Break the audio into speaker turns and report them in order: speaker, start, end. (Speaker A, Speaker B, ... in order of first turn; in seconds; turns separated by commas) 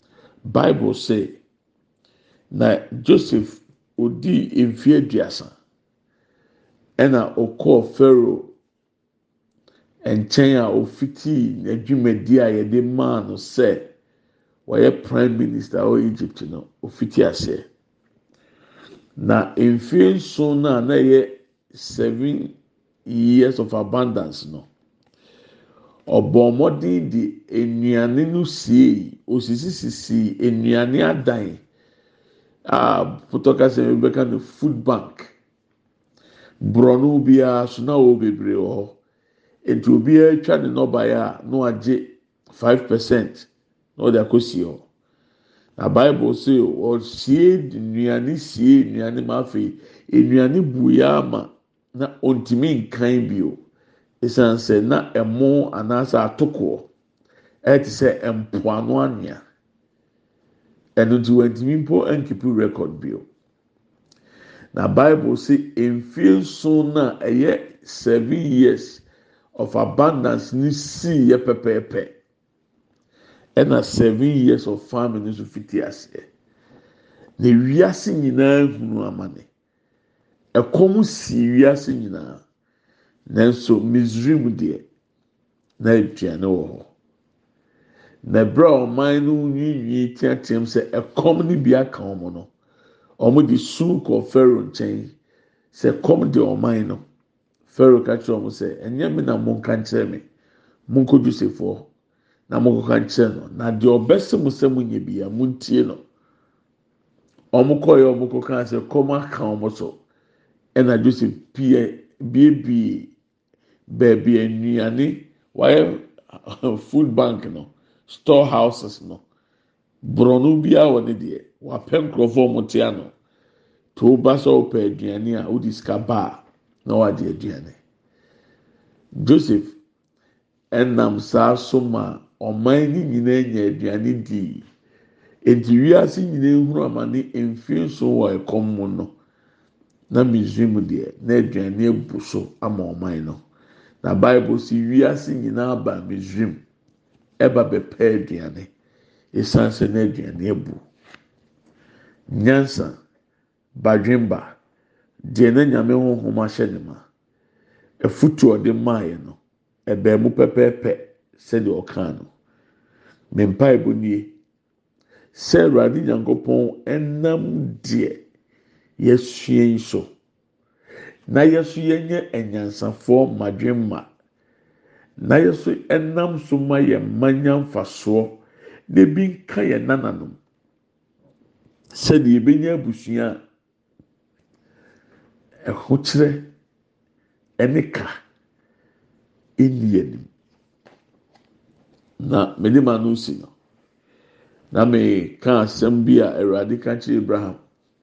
Speaker A: 0.5-1.4, Speaker A: 2.5-5.5, Speaker A: 7.0-8.5, Speaker A: 10.1-13.9, Speaker A: 14.7-17.7, Speaker A: 19.2-24.7, Speaker A: 26.1-31.6, Speaker A: 32.7-35.4, Speaker A: 36.6-39.0, Speaker A: 39.6-44.9, Speaker A: 45.8-53.6, Speaker A: 54.2-56.9, Speaker A: 57.6-59.4, Speaker A: 61.0-63.3, Speaker A: 64.7-69.0, Speaker A: 69.5-72.1, Speaker A: 73.6-76.3, Speaker A: 77.4-79.5, Speaker A: 80.5-82.4, Speaker A: 83.3-84.9, Speaker A: 85.8-86.9, Speaker A: 88.2-92.5, Speaker A: 93.2-95.2, Speaker A: 95.7-97.0, Speaker A: 97.7-100.3, Speaker A: 100.9-101.9, Speaker A: 102.5-106.0, Speaker A: 107.5-110.0, Speaker A: 110.8-113.1, Speaker A: 113.9-119.2, Speaker A: 120.0-123.1, Speaker A: 124.0-127.8, Speaker A: 129.2-129.8, Speaker A: 130.7-134.7, Speaker A: 135.4-139.1, Speaker A: 140.1-143.4, Speaker A: 144.0-146.6, Speaker A: 147.4-148.7, Speaker A: 149.3-150.8, Speaker A: 152.3-153.0, Speaker A: 153.8-154.6, Speaker A: 155.3-157.0, Speaker A: 158.0-162.3, Speaker A: 163.3-164.3, Speaker A: 165.3-168.2, Speaker A: 169.0-170.1, Speaker A: 171.3-174.1, Speaker A: 175.2-180.4, Speaker A: 181.9-183.4, Speaker A: 185.7-186.5, Speaker A: 187.6-188.1, Speaker A: 189.6-190.3, Speaker A: 192.2-193.5, Speaker A: 194.7-197.6